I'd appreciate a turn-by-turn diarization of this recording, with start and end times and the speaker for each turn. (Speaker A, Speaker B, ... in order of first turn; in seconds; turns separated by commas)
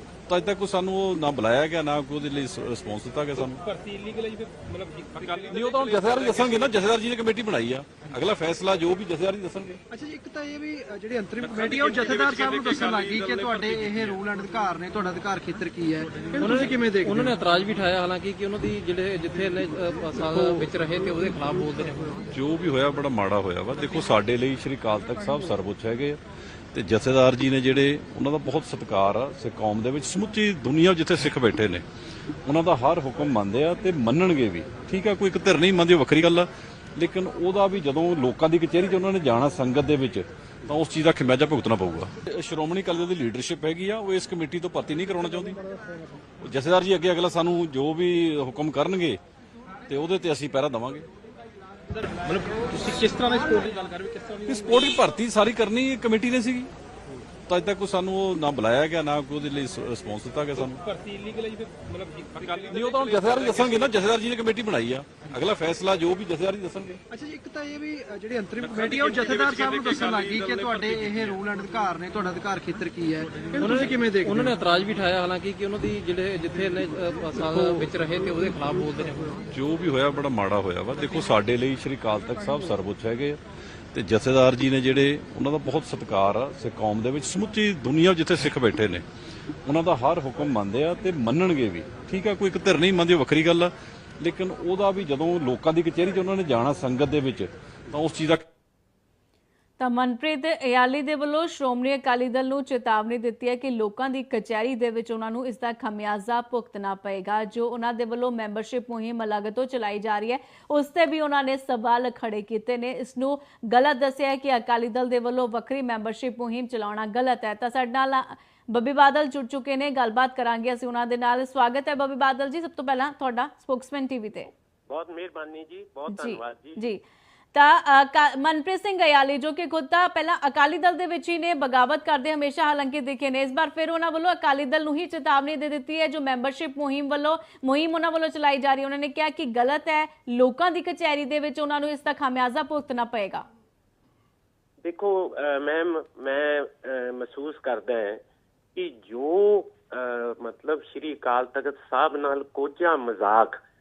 Speaker A: 0.3-3.6, Speaker B: 3.6-6.4, Speaker A: 5.5-9.8, Speaker C: 9.9-17.3, Speaker D: 16.4-22.2, Speaker A: 22.3-26.2, Speaker A: 26.7-31.8, Speaker A: 32.4-45.6, Speaker A: 46.4-49.2, Speaker A: 49.9-51.1, Speaker B: 51.9-54.7, Speaker A: 54.5-56.7, Speaker A: 57.5-60.8, Speaker B: 60.8-63.7, Speaker A: 62.7-67.0, Speaker C: 67.1-74.5, Speaker D: 73.6-79.4, Speaker A: 79.5-83.4, Speaker A: 83.9-89.0, Speaker A: 89.6-98.5, Speaker E: 99.8-124.5, Speaker F: 124.9-126.8, Speaker E: 126.1-127.0, Speaker E: 127.5-143.4, Speaker F: 144.8-148.2, Speaker F: 148.7-153.6